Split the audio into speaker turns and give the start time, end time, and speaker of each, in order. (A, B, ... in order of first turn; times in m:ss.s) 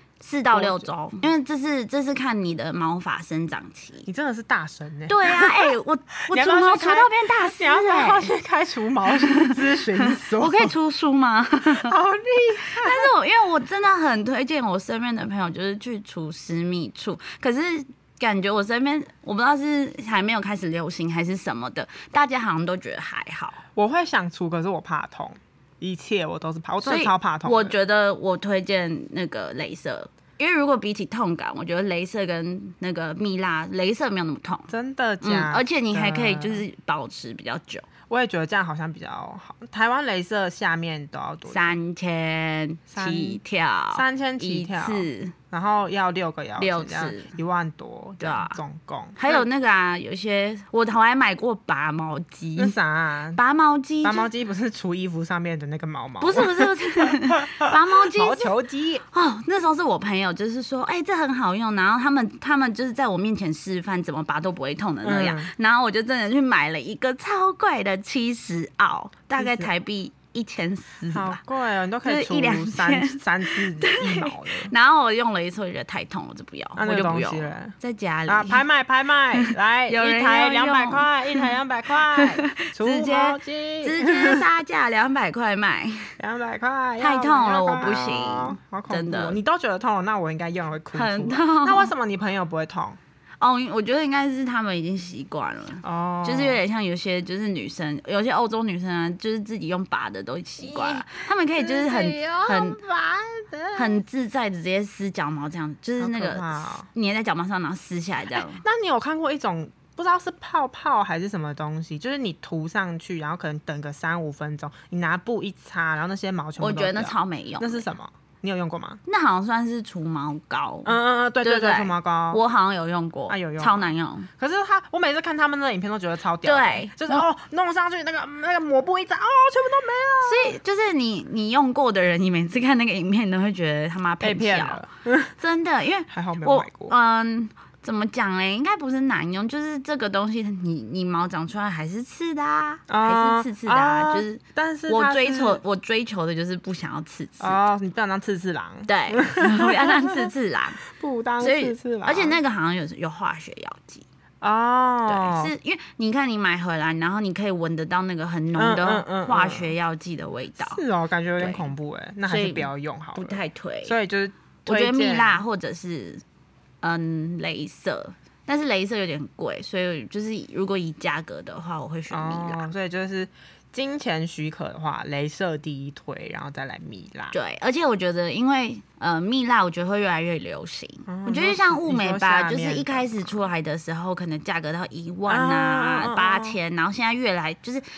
0:00.2-0:04.1 A
0:00.5-0:00.9 B
0:04.0-0:05.7 B
0:05.1-0:08.3 A
0:06.3-0:10.7 B
0:09.1-0:11.9 A
0:11.6-0:13.1 B
0:12.7-0:23.6 A
0:23.7-0:27.7 B
0:26.8-0:34.7 A
0:34.7-0:36.6 B
0:35.2-0:37.8 A
0:38.1-0:41.8 B
0:41.5-0:45.3 A
0:42.9-0:43.4 B
0:43.9-0:49.4 B
0:46.6-0:47.3 A
0:48.2-0:48.6 A
0:49.2-0:52.8 A
0:52.6-0:53.4 B
0:53.3-0:54.3 A
0:54.0-0:59.0 B
0:56.2-0:58.5 A
0:59.1-1:11.4 A
1:05.0-1:05.5 B
1:09.4-1:09.7 B
1:11.1-1:14.7 B
1:12.0-1:18.6 A
1:16.8-1:17.7 B
1:18.3-1:24.4 B
1:19.3-1:21.5 A
1:22.1-1:26.2 A
1:26.2-1:33.0 B
1:27.0-1:29.4 A
1:30.9-1:31.9 A
1:33.4-1:42.8 A
1:35.8-1:36.6 B
1:40.6-1:44.0 B
1:43.7-1:48.6 A
1:46.0-1:46.9 B
1:48.3-1:59.0 B
1:56.6-1:57.8 A
1:59.1-2:04.3 A
2:00.8-2:02.4 B
2:03.3-2:10.6 B
2:06.4-2:07.2 A
2:10.2-2:14.8 A
2:14.2-2:15.3 B
2:15.4-2:27.6 A
2:16.1-2:16.9 B
2:22.9-2:25.6 B
2:27.4-2:30.2 B
2:28.9-2:30.8 A
2:30.8-2:32.4 B
2:31.4-2:34.0 A
2:34.4-2:35.5 B
2:35.1-2:40.8 A
2:38.6-2:39.7 B
2:40.6-2:45.4 B
2:41.4-2:41.7 A
2:42.3-2:43.9 A
2:44.6-2:46.2 A
2:46.8-2:52.7 A
2:52.1-2:57.4 B
2:57.3-3:07.8 A
3:01.1-3:03.2 B
3:05.3-3:06.6 B